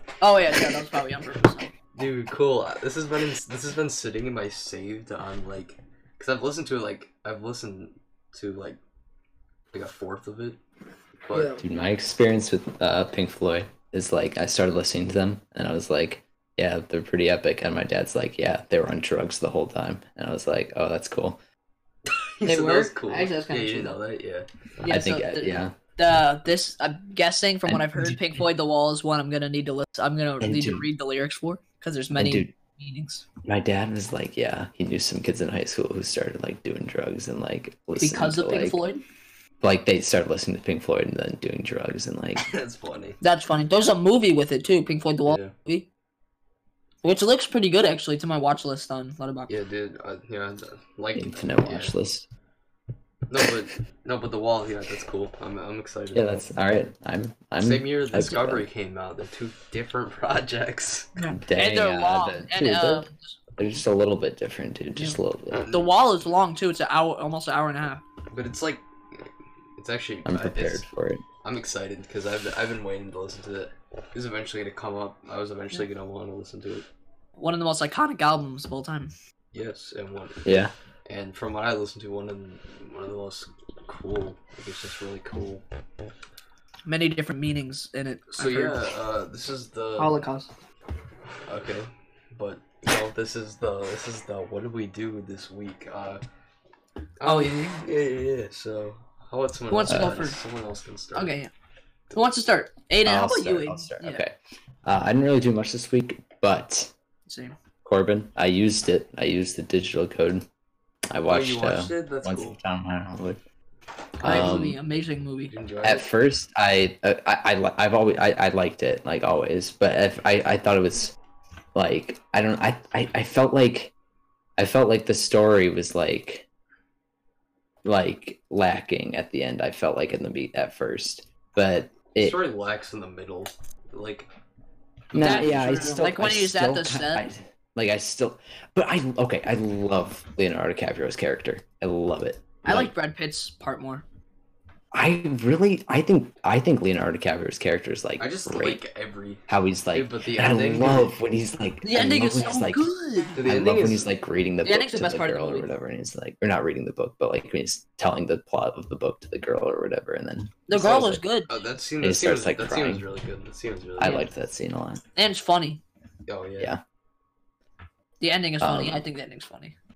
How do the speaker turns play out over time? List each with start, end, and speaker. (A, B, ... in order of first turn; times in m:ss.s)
0:00.2-0:01.7 A
0:01.9-0:08.8 B
0:09.7-0:10.6 B
0:11.3-0:11.6 B
0:11.3-0:11.6 A
0:11.6-0:21.4 C
0:22.1-0:24.5 B
0:22.4-0:24.0 A
0:24.8-0:33.2 A
0:24.8-0:25.8 C
0:27.6-0:28.4 C
0:30.4-0:30.9 C
0:32.1-0:32.5 C
0:33.4-0:38.8 C
0:38.0-0:39.0 A
0:39.6-0:42.5 C
0:42.4-0:43.2 B
0:43.2-0:45.9 A
0:45.2-0:45.5 B
0:47.0-0:49.5 A
0:49.5-0:51.9 B
0:51.1-0:52.3 C
0:53.3-0:56.4 B
0:56.1-0:58.6 C
0:57.6-1:01.2 B
1:01.2-1:03.4 A
1:01.4-1:05.6 C
1:05.5-1:05.9 B
1:05.7-1:08.0 A
1:08.3-1:10.8 B
1:10.2-1:11.2 C
1:11.4-1:16.9 B
1:17.4-1:19.1 A
1:19.5-1:25.6 B
1:20.4-1:20.7 C
1:26.8-1:28.8 A
1:28.3-1:30.2 B
1:30.0-1:30.5 A
1:31.4-1:36.2 B
1:37.2-1:41.3 B
1:37.2-1:37.8 A
1:39.7-1:40.4 A
1:39.9-1:40.2 C
1:41.1-1:41.5 A
1:42.1-1:44.2 A
1:43.0-1:46.9 C
1:47.2-1:47.5 A
1:47.8-1:50.4 C
1:51.1-1:53.4 C
1:51.3-1:52.6 B
1:54.2-1:54.6 B
1:54.2-1:55.6 A
1:54.2-1:54.8 C
1:55.5-1:56.1 B
1:55.8-2:01.1 C
2:01.7-2:03.9 C
2:04.6-2:06.4 C
2:07.8-2:12.4 C
2:12.1-2:14.3 B
2:15.1-2:15.7 B
2:15.1-2:22.9 C
2:15.2-2:17.2 A
2:22.6-2:24.0 A
2:24.9-2:28.8 C
2:28.2-2:31.1 B
2:29.5-2:32.9 C
2:31.8-2:33.4 A
2:33.3-2:34.1 B
2:33.4-2:40.6 C
2:34.6-2:35.7 A
2:40.7-2:41.5 A
2:40.7-2:44.3 B
2:42.0-2:43.0 C
2:44.0-2:45.0 C
2:45.2-2:45.8 A
2:46.3-2:46.7 B
2:48.2-2:49.7 A
2:48.6-2:49.0 C